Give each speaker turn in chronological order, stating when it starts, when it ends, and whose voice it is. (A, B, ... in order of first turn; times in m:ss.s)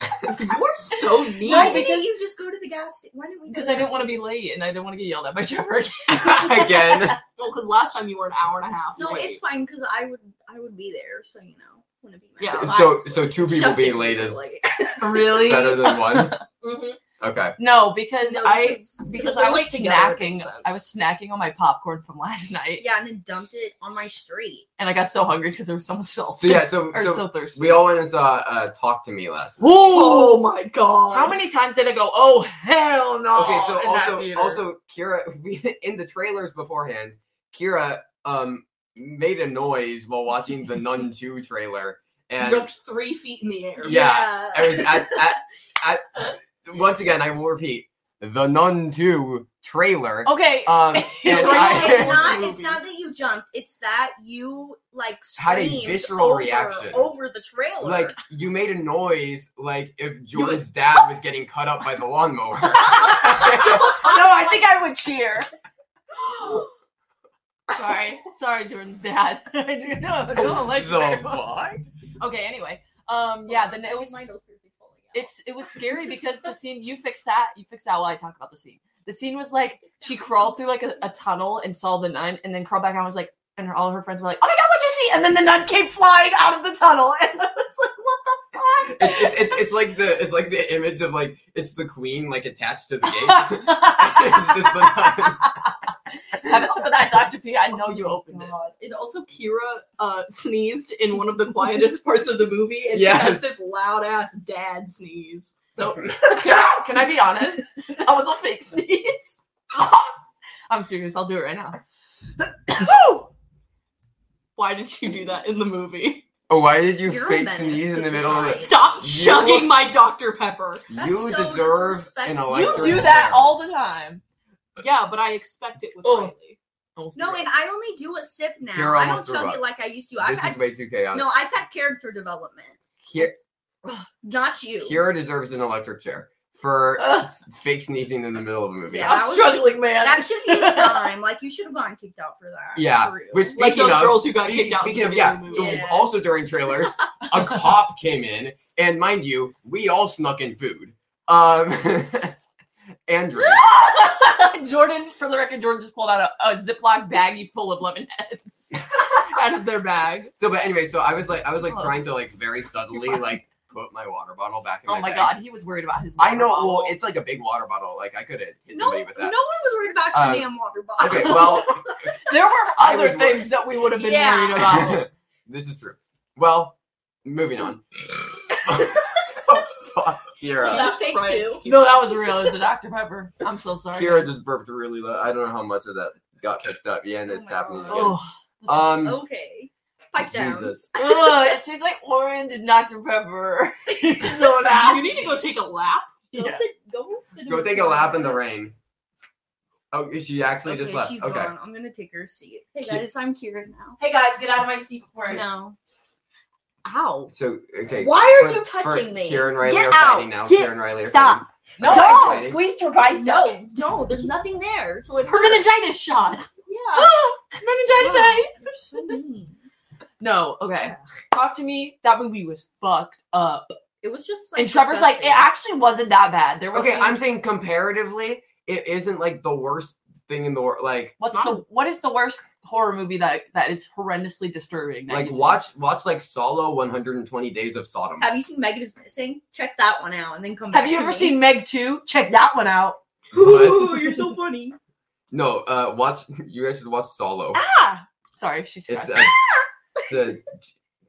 0:00.3-0:01.9 A
0:01.4-0:02.1 B
0:01.4-0:04.2 C
0:03.5-0:07.2 B
0:06.1-0:07.2 D
0:07.4-0:09.4 A
0:09.0-0:15.3 C
0:12.4-0:12.9 A
0:12.6-0:14.4 D
0:15.0-0:16.4 B
0:15.2-0:16.4 D
0:16.6-0:17.0 A
0:17.2-0:17.6 D
0:17.6-0:22.8 B
0:18.2-0:19.0 C
0:19.1-0:20.8 A
0:22.8-0:24.7 C
0:24.8-0:27.8 B
0:26.4-0:30.0 D
0:29.6-0:30.4 B
0:29.9-0:31.4 A
0:31.1-0:34.6 B
0:33.3-0:42.7 D
0:42.4-0:44.0 A
0:43.8-0:45.2 C
0:43.8-0:52.3 D
0:50.2-0:52.1 B
0:51.2-0:52.8 A
0:51.3-0:58.1 C
0:55.4-0:57.1 D
0:57.8-1:04.0 D
1:00.3-1:00.6 A
1:02.8-1:05.5 B
1:03.4-1:04.5 C
1:07.7-1:11.4 B
1:10.4-1:11.8 D
1:12.2-1:14.2 B
1:13.4-1:15.3 C
1:15.1-1:29.6 B
1:20.0-1:21.0 C
1:28.8-1:35.5 D
1:33.1-1:35.5 B
1:36.3-1:38.5 B
1:37.9-1:38.7 C
1:38.7-1:45.8 A
1:42.9-1:43.6 D
1:45.8-1:50.1 B
1:50.7-1:51.8 B
1:52.6-1:53.3 B
1:54.6-1:56.2 A
1:56.5-1:59.7 D
1:57.0-1:59.0 C
1:58.4-2:00.9 A
2:00.9-2:03.5 D
2:00.9-2:03.2 C
2:02.5-2:04.2 B
2:04.8-2:06.6 A
2:06.0-2:06.3 B
2:07.0-2:07.5 B
2:07.1-2:12.8 C
2:08.7-2:09.6 D
2:10.2-2:11.3 D
2:13.0-2:13.4 D
2:14.2-2:15.0 C
2:14.8-2:19.3 D
2:17.0-2:17.3 B
2:18.9-2:23.7 C
2:19.0-2:21.1 B
2:22.7-2:32.4 D
2:23.6-2:25.9 A
2:25.5-2:26.1 C
2:33.1-2:33.6 D
2:33.4-2:40.3 B
2:40.4-2:45.3 D
2:41.6-2:41.9 B
2:44.9-2:47.0 B
2:46.2-2:49.3 D
2:48.7-2:51.8 C
2:50.1-2:51.8 D
2:51.2-2:51.6 B
2:52.2-2:55.1 B
2:52.8-2:53.5 D
2:53.9-2:54.9 C
2:54.6-3:00.9 D
3:00.6-3:01.6 C
3:00.6-3:02.2 A
3:01.6-3:04.3 B
3:03.9-3:09.2 D
3:07.3-3:08.2 C
3:07.9-3:09.0 B
3:08.9-3:10.8 C
3:10.2-3:10.9 D
3:10.9-3:15.2 B
3:14.7-3:16.3 A
3:16.3-3:18.4 C
3:16.3-3:16.6 B
3:17.5-3:18.7 D
3:19.9-3:21.5 D
3:20.6-3:24.0 C
3:24.0-3:25.4 B
3:25.3-3:25.8 C
3:26.8-3:27.3 C
3:27.3-3:32.6 D
3:27.9-3:32.5 C
3:31.8-3:33.6 B
3:33.1-3:35.7 C
3:35.1-3:36.5 A
3:36.6-3:37.2 C
3:36.9-3:39.2 B
3:37.8-3:39.6 C
3:40.2-3:43.7 B
3:44.0-3:45.5 C
3:44.5-3:47.2 B
3:46.7-3:51.2 D
3:51.2-3:55.6 B
3:51.2-3:51.6 A
3:55.1-3:58.3 D
3:58.2-4:01.4 C
4:00.7-4:03.0 B
4:03.3-4:04.0 D
4:03.3-4:04.8 C
4:05.3-4:07.6 D
4:07.5-4:09.3 B
4:08.9-4:09.4 D
4:10.0-4:10.7 D